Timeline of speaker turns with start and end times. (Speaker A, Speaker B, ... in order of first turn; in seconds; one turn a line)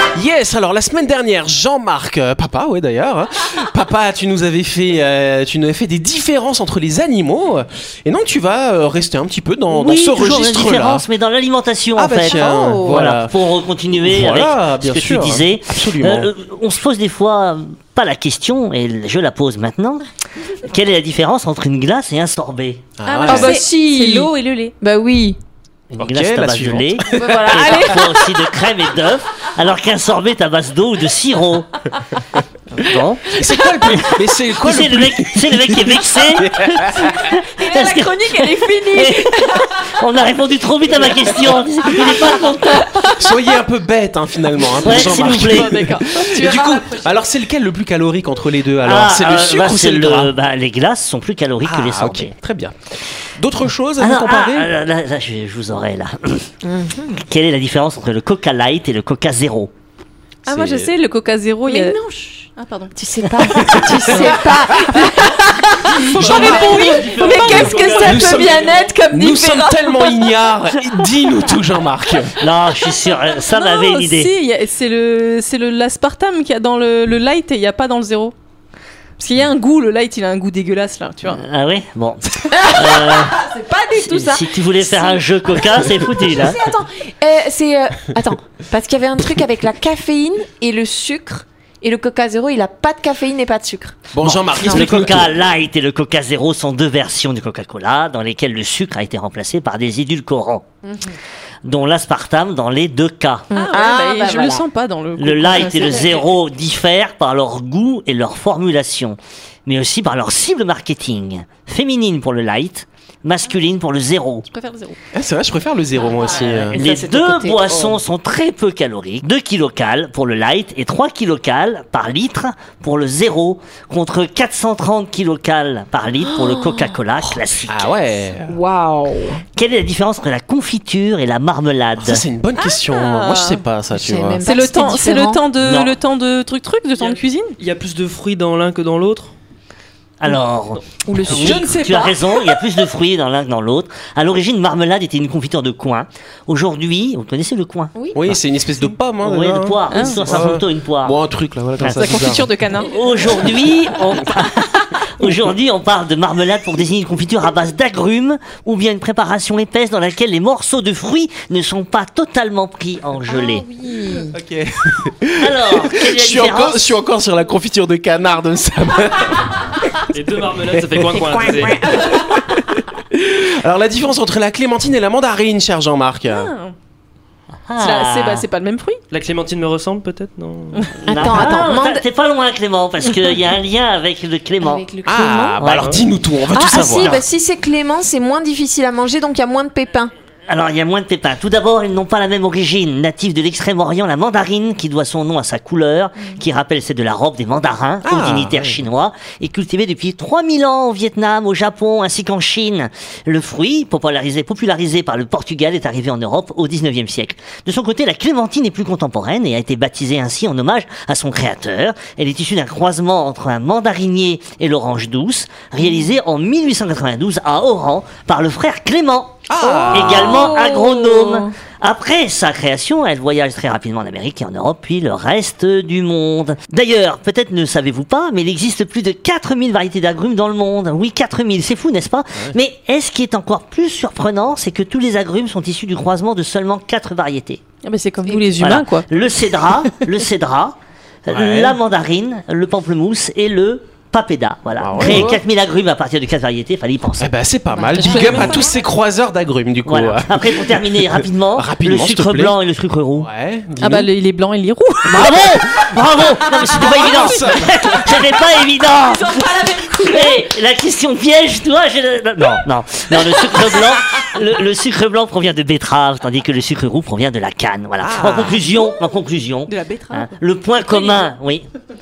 Speaker A: 0.1-11.1
Speaker B: 9.7-20.0
Speaker A: 11.9-13.4
Speaker C: 12.2-13.0
Speaker A: 13.9-16.3
Speaker B: 20.6-22.8
Speaker A: 23.0-23.6
Speaker C: 23.1-25.4
Speaker D: 23.1-24.7
Speaker A: 25.9-27.8
Speaker B: 26.0-31.7
Speaker C: 27.1-28.3
Speaker B: 32.7-33.3
Speaker A: 33.3-37.3
Speaker B: 33.9-43.1
Speaker C: 37.6-39.6
Speaker A: 43.0-50.3
Speaker B: 44.7-45.8
Speaker D: 44.8-47.1
Speaker B: 48.8-52.3
Speaker A: 51.6-52.7
Speaker A: 53.4-54.7
Speaker B: 54.0-56.5
Speaker C: 56.6-57.2
Speaker B: 57.1-59.7
Speaker D: 60.5-62.0
Speaker A: 60.5-60.9
Speaker C: 61.7-70.3
Speaker D: 62.6-62.9
Speaker A: 63.5-65.3
Speaker B: 63.6-64.2
Speaker D: 65.9-68.2
Speaker A: 66.0-72.3
Speaker B: 66.1-68.4
Speaker B: 72.4-74.3
Speaker D: 73.0-78.3
Speaker D: 79.2-81.4
Speaker B: 81.2-83.4
Speaker C: 82.5-94.0
Speaker B: 83.9-86.6
Speaker A: 94.1-95.3
Speaker B: 94.2-100.7
Speaker C: 94.6-94.8
Speaker C: 100.8-101.2
Speaker B: 101.6-103.5
Speaker C: 103.5-104.6
Speaker D: 103.5-106.2
Speaker B: 105.2-114.4
Speaker C: 105.8-106.0
Speaker D: 114.5-115.0
Speaker A: 115.1-116.8
Speaker C: 116.0-118.0
Speaker B: 116.7-127.9
Speaker C: 126.2-127.0
Speaker A: 127.7-128.6
Speaker C: 128.5-129.4
Speaker B: 129.6-132.2
Speaker A: 132.0-134.4
Speaker D: 132.9-133.6
Speaker C: 133.9-135.4
Speaker D: 134.4-137.6
Speaker B: 135.6-135.9
Speaker E: 137.0-139.3
Speaker B: 140.2-148.4
Speaker C: 141.0-142.3
Speaker C: 147.9-148.2
Speaker A: 148.1-152.5
Speaker B: 149.2-151.2
Speaker D: 149.9-150.2
Speaker B: 151.8-163.6
Speaker D: 151.9-152.9
Speaker C: 163.3-164.3
Speaker A: 164.3-170.0
Speaker B: 165.4-166.9
Speaker E: 170.1-171.8
Speaker A: 170.7-176.5
Speaker C: 171.2-172.2
Speaker D: 176.3-176.7
Speaker B: 177.7-178.4
Speaker D: 177.8-179.0
Speaker E: 179.1-180.8
Speaker C: 181.1-182.0
Speaker B: 181.1-184.8
Speaker C: 184.6-185.6
Speaker A: 185.0-187.2
Speaker B: 185.6-186.0
Speaker C: 186.5-190.1
Speaker B: 186.7-187.2
Speaker B: 190.5-237.6
Speaker A: 198.0-198.8
Speaker A: 219.5-220.5
Speaker C: 219.6-220.1
Speaker D: 220.3-221.3
Speaker D: 237.8-239.1
Speaker B: 238.6-247.3
Speaker A: 241.3-241.8
Speaker A: 244.8-245.4
Speaker D: 245.0-245.3
Speaker A: 247.2-252.6
Speaker C: 247.7-248.7
Speaker D: 247.9-248.6
Speaker B: 249.8-253.3
Speaker A: 253.2-254.1
Speaker D: 253.8-255.3
Speaker B: 255.1-271.7
Speaker A: 256.7-258.1
Speaker D: 259.3-260.4
Speaker A: 268.0-268.7
Speaker D: 269.7-270.3
Speaker D: 270.8-271.3